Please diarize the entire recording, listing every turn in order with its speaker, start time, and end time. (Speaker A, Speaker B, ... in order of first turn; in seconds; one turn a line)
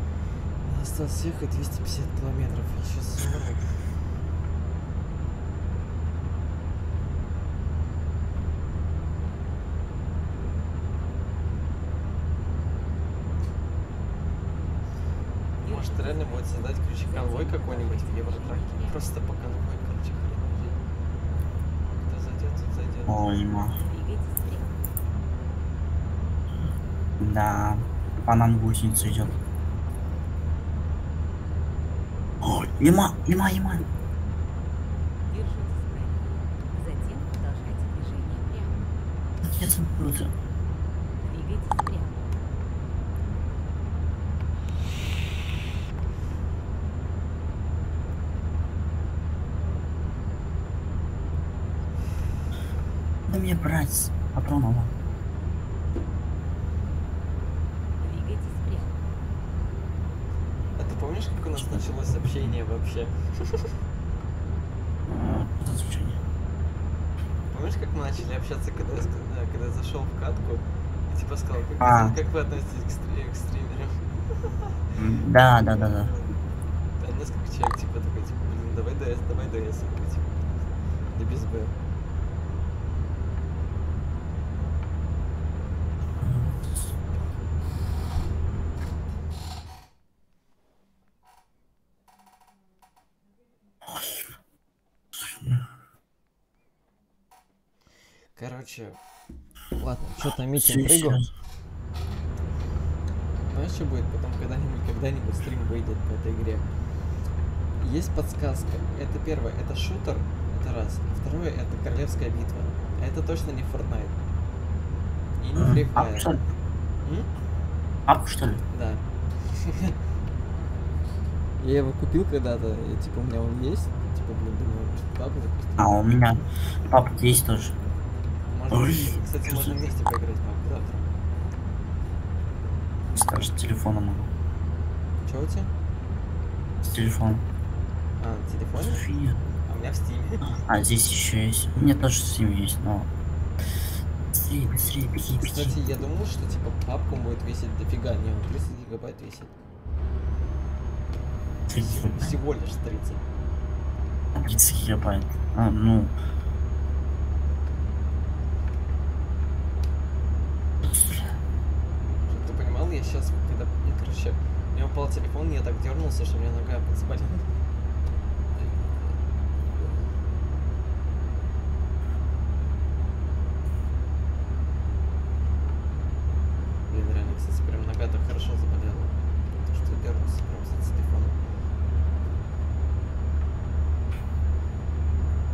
Speaker A: 0.6-3.8
Speaker B: 15.6-19.1
Speaker A: 15.6-20.8
Speaker A: 21.9-23.3
Speaker C: 23.1-23.8
Speaker B: 23.8-24.9
Speaker C: 27.2-29.4
Speaker C: 32.4-33.9
Speaker B: 35.3-38.9
Speaker C: 39.4-40.3
Speaker B: 41.2-42.4
Speaker C: 53.3-54.9
Speaker B: 58.0-59.0
Speaker A: 60.8-63.7
Speaker C: 65.1-66.2
Speaker A: 67.5-74.8
Speaker C: 71.8-72.2
Speaker C: 74.9-76.1
Speaker A: 75.7-76.3
Speaker A: 77.0-81.8
Speaker C: 86.2-86.7
Speaker C: 93.9-94.2
Speaker C: 95.3-95.6
Speaker A: 98.4-99.0
Speaker A: 99.8-101.2
Speaker C: 100.6-101.3
Speaker A: 103.4-106.7
Speaker A: 107.8-114.2
Speaker A: 115.4-116.3
Speaker C: 115.6-116.4
Speaker A: 117.0-117.3
Speaker C: 118.1-118.6
Speaker A: 118.7-120.0
Speaker A: 121.6-126.0
Speaker C: 125.8-127.8
Speaker A: 128.5-131.0
Speaker C: 128.7-129.8
Speaker C: 133.1-134.3
Speaker A: 135.2-135.7
Speaker C: 136.8-137.5
Speaker A: 138.2-139.0
Speaker C: 138.8-139.4
Speaker A: 139.7-140.5
Speaker C: 140.4-143.1
Speaker C: 144.3-145.8
Speaker A: 145.3-149.5
Speaker C: 151.7-152.3
Speaker A: 151.8-153.2
Speaker C: 154.3-156.1
Speaker C: 160.8-161.3
Speaker A: 162.2-167.5
Speaker A: 176.9-181.4